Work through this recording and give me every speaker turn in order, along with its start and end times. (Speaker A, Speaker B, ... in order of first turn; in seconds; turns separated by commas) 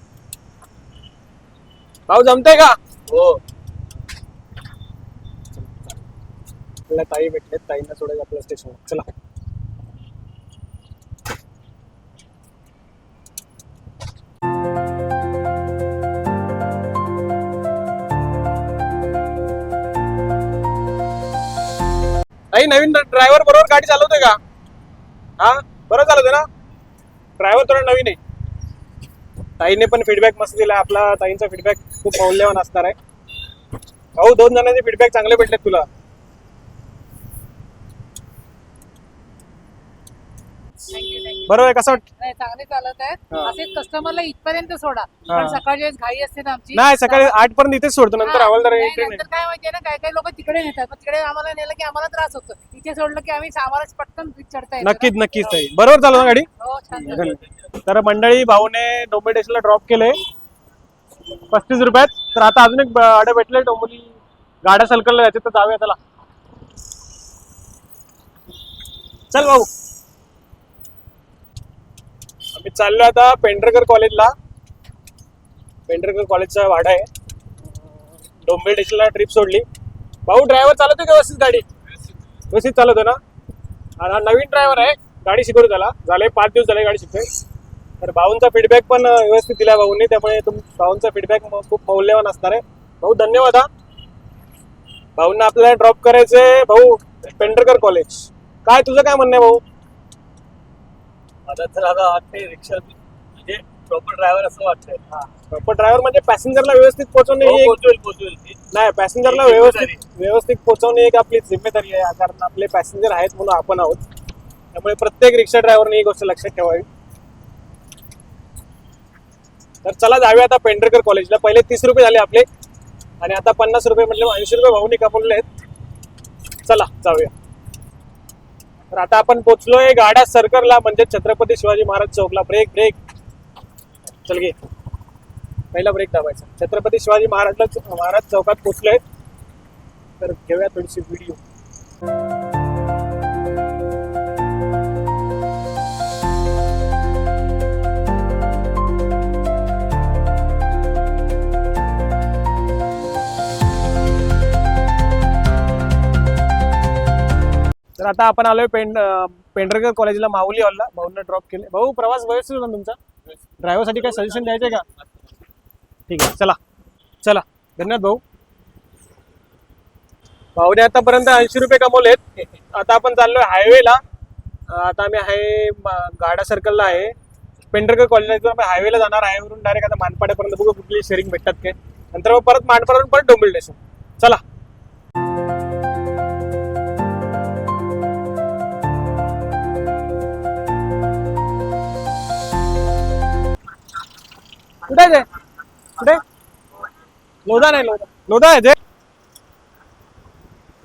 Speaker A: 2.1-2.8, Speaker B: 3.1-3.4, Speaker A: 6.9-9.1, Speaker A: 22.5-24.4, Speaker A: 25.4-26.4, Speaker A: 27.4-28.2, Speaker A: 29.6-33.0, Speaker A: 34.2-35.9, Speaker C: 40.9-47.4, Speaker A: 41.5-42.0, Speaker A: 45.3-45.6, Speaker A: 46.7-49.2, Speaker C: 48.2-55.1, Speaker A: 54.8-60.1, Speaker C: 56.1-57.4, Speaker A: 61.5-66.0, Speaker A: 69.3-69.7, Speaker A: 72.5-74.3, Speaker A: 75.9-77.1, Speaker A: 78.4-79.7, Speaker A: 80.2-81.6, Speaker A: 82.5-83.2, Speaker A: 84.0-87.3, Speaker A: 88.0-93.7, Speaker A: 95.2-99.6, Speaker B: 101.5-105.0, Speaker A: 105.5-107.8, Speaker B: 107.4-108.6, Speaker A: 108.7-114.0, Speaker B: 109.2-110.0, Speaker A: 114.7-116.8, Speaker A: 119.8-122.5, Speaker A: 123.2-125.5, Speaker A: 126.6-127.3, Speaker A: 128.9-133.0, Speaker A: 134.2-134.6, Speaker A: 135.7-139.0, Speaker A: 140.2-141.4, Speaker A: 158.0-163.0, Speaker A: 163.6-164.8, Speaker B: 163.9-165.0, Speaker A: 166.1-166.6, Speaker A: 167.2-168.2, Speaker A: 170.6-174.0, Speaker A: 174.7-177.1, Speaker A: 177.7-184.4, Speaker A: 194.8-195.2, Speaker A: 196.0-196.2, Speaker A: 197.4-198.8